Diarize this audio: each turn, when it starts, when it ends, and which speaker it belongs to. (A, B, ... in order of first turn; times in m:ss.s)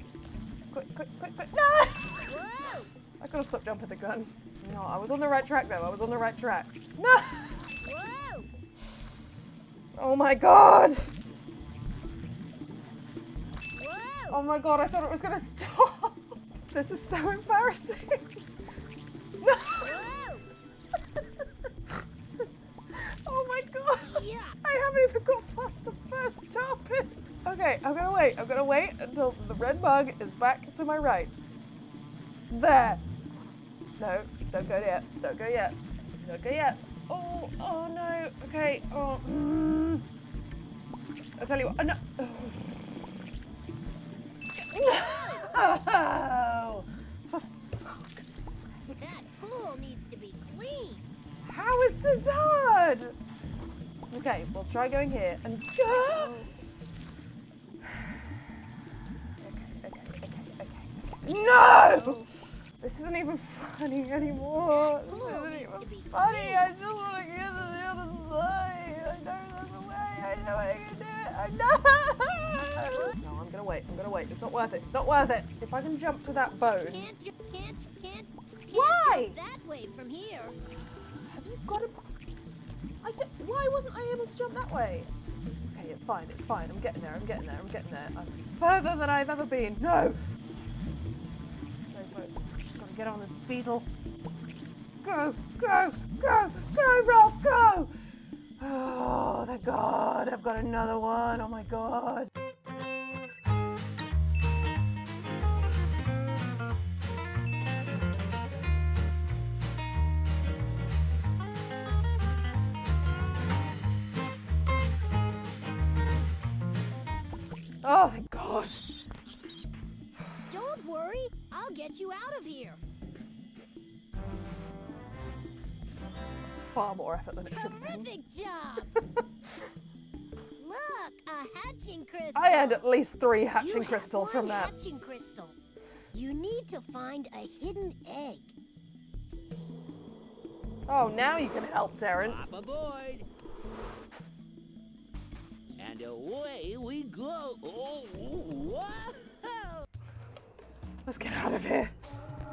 0:00.7-0:02.4 A
0:02.2-0:02.9 B
0:03.2-0:07.7 A
0:07.8-0:08.5 B
0:10.0-0:11.1 A
0:13.8-0:14.4 B
0:14.3-0:18.4 A
0:19.4-0:20.1 A
0:19.8-0:20.5 B
0:21.2-0:21.9 A
0:22.9-0:31.3 A
0:24.0-0:24.6 B
0:32.5-0:33.0 A
0:34.0-0:40.1 A
0:41.4-0:42.7 A
0:44.6-0:49.0 A
0:44.7-0:45.6 B
0:48.9-0:51.1 B
0:51.4-0:53.2 A
0:54.1-0:56.4 A
0:55.9-0:56.6 B
0:57.8-0:58.4 A
0:59.4-1:02.2 A
1:01.8-1:02.3 B
1:02.8-1:17.1 A
1:04.7-1:06.7 B
1:12.8-1:13.2 B
1:16.8-1:20.6 B
1:18.7-1:19.4 A
1:21.2-1:22.0 A
1:23.0-1:25.1 A
1:25.7-1:33.9 A
1:35.0-1:37.9 A
1:38.6-1:42.3 A
1:57.8-1:59.1 A
2:00.5-2:02.8 B
2:06.5-2:08.1 A
2:07.4-2:09.0 B
2:09.0-2:09.2 A
2:10.6-2:12.9 B
2:12.4-2:14.8 A
2:13.6-2:15.6 B
2:16.1-2:18.6 B
2:20.9-2:22.6 A
2:22.2-2:23.3 C
2:25.8-2:29.9 C
2:31.1-2:32.0 A